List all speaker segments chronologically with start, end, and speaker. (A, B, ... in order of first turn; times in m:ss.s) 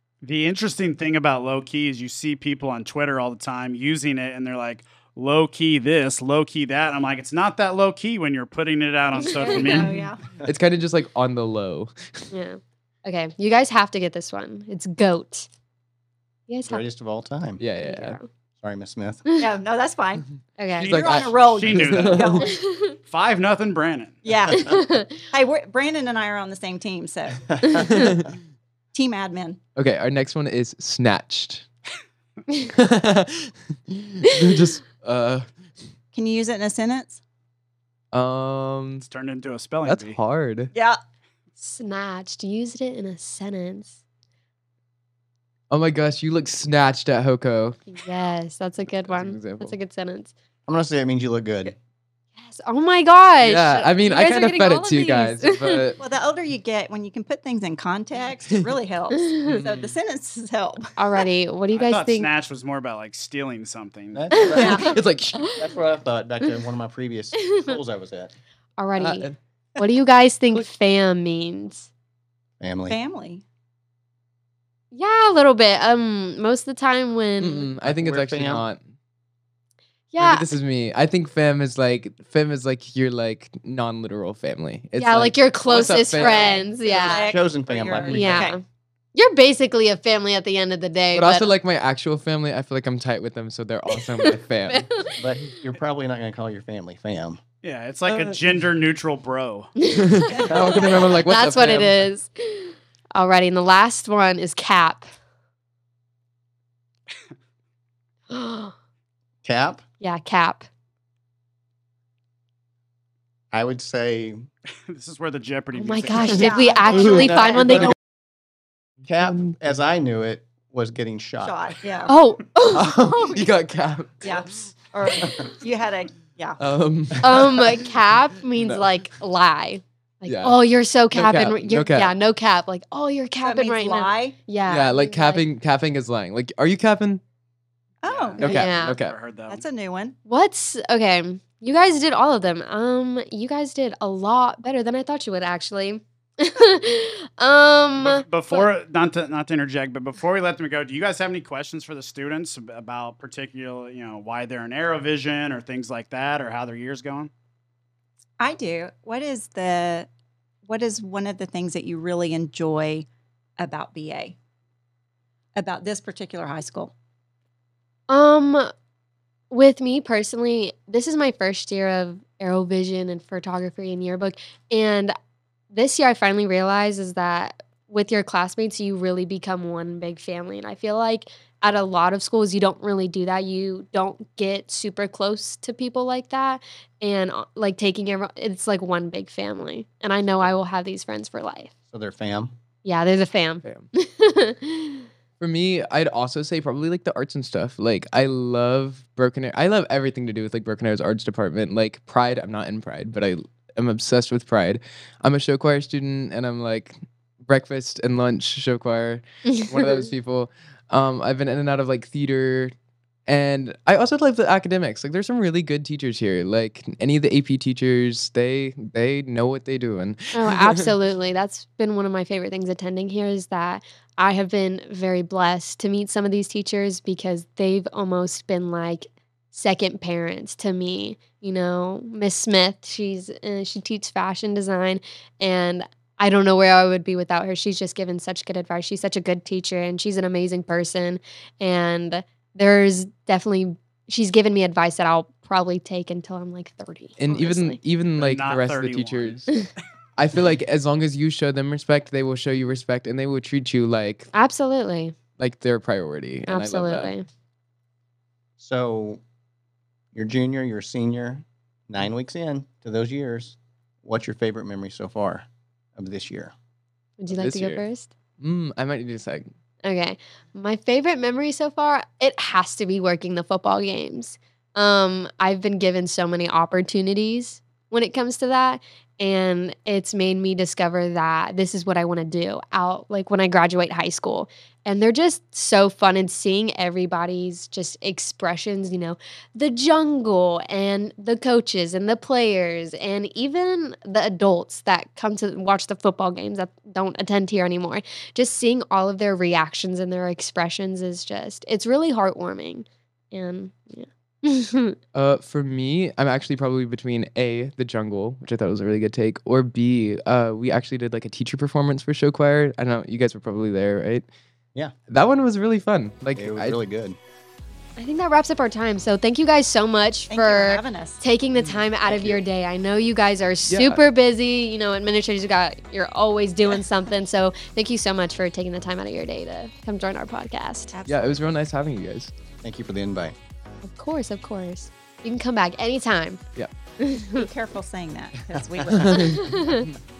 0:00.2-0:10.0 A
0:09.2-0:09.8 B
0:09.2-0:10.2 C
0:10.4-0:12.3 D
0:12.3-0:15.5 B
0:16.5-0:16.8 B
0:16.7-0:17.6 E
0:17.6-0:18.2 D
0:17.8-0:18.2 B
0:18.6-0:19.3 E
0:19.4-0:20.3 C
0:20.6-0:20.9 B
0:20.8-0:22.2 A
0:20.8-0:22.6 D
0:20.8-0:22.5 C
0:22.4-0:23.0 B
0:23.0-0:24.2 A
0:24.2-0:27.5 C
0:24.6-0:25.2 B
0:27.7-0:28.3 D
0:28.9-0:29.6 C
0:29.8-0:31.7 D
0:32.7-0:35.5 D
0:36.1-0:37.2 C
0:38.1-0:39.0 D
0:39.0-0:40.2 A
0:39.8-0:40.7 D
0:41.6-0:44.0 B
0:45.7-0:47.8 D
0:47.9-0:50.3 B
0:48.9-0:49.8 D
0:50.7-0:51.7 E
0:52.4-0:55.9 B
0:53.4-0:56.0 D
0:56.0-1:01.2 C
0:59.2-0:59.6 B
0:59.4-0:59.9 D
1:01.0-1:02.3 B
1:01.7-1:04.3 A
1:04.1-1:04.9 E
1:04.3-1:05.7 B
1:04.5-1:05.5 D
1:04.6-1:05.0 C
1:05.5-1:08.3 E
1:07.4-1:07.7 B
1:08.8-1:11.9 B
1:09.0-1:09.4 D
1:12.6-1:13.0 E
1:12.9-1:13.4 C
1:14.9-1:17.7 B
1:17.4-1:18.9 D
1:17.8-1:18.6 E
1:20.1-1:20.5 B
1:20.2-1:26.7 D
1:25.0-1:27.3 B
1:25.7-1:28.6 C
1:27.1-1:28.5 E
1:28.1-1:28.6 B
1:29.1-1:31.5 B
1:31.1-1:35.0 D
1:34.0-1:35.1 B
1:35.1-1:37.4 E
1:37.6-1:39.7 A
1:39.8-1:45.1 B
1:39.9-1:42.1 D
1:40.3-1:41.2 C
1:48.3-1:48.8 B
1:49.4-1:49.8 E
1:50.0-1:50.7 B
1:53.5-1:54.5 E
1:54.9-1:56.7 A
1:55.7-1:57.9 B
1:56.2-1:57.6 D
1:56.3-1:57.8 C
1:59.1-2:01.6 E
1:59.2-1:59.6 D
2:01.4-2:02.1 C
2:02.1-2:03.4 B
2:02.7-2:04.5 D
2:04.2-2:06.6 C
2:06.6-2:07.6 D
2:07.2-2:15.5 B
2:08.6-2:08.8 D
2:10.2-2:10.6 D
2:11.1-2:12.2 D
2:13.4-2:14.4 C
2:14.7-2:17.2 D
2:18.0-2:18.6 C
2:18.1-2:19.7 A
2:18.4-2:19.2 D
2:18.5-2:19.0 B
2:19.5-2:20.2 C
2:20.2-2:28.6 B
2:28.0-2:37.3 A
2:38.4-2:40.1 C
2:40.7-2:43.1 C
2:43.6-2:44.4 C
2:45.6-2:46.9 C
2:48.1-2:48.7 B
2:49.5-2:55.1 B
2:55.7-3:11.7 B
3:11.9-3:12.6 E
3:12.8-3:15.1 B
3:15.4-3:32.7 D
3:29.5-3:30.0 B
3:33.3-3:40.9 D
3:40.4-4:07.8 B
4:07.2-4:09.5 D
4:08.2-4:09.6 A
4:10.2-4:14.3 D
4:14.3-4:15.2 B
4:15.4-4:17.1 D
4:16.5-4:17.3 B
4:18.6-4:19.2 E
4:20.2-4:26.5 E
4:27.2-4:28.1 B
4:27.3-4:27.8 D
4:28.4-4:29.5 D
4:29.8-5:05.0 B
5:05.1-5:14.3 D
5:15.1-5:16.8 D
5:16.4-5:17.2 E
5:18.0-5:30.9 B
5:20.3-5:21.2 C
5:21.6-5:22.4 D
5:23.7-5:24.0 D
5:30.9-5:31.5 C
5:31.1-5:32.3 D
5:32.6-5:33.4 E
5:33.8-5:36.4 B
5:37.0-5:37.5 B
5:37.4-5:39.4 C
5:39.0-5:39.6 D
5:39.3-5:39.9 B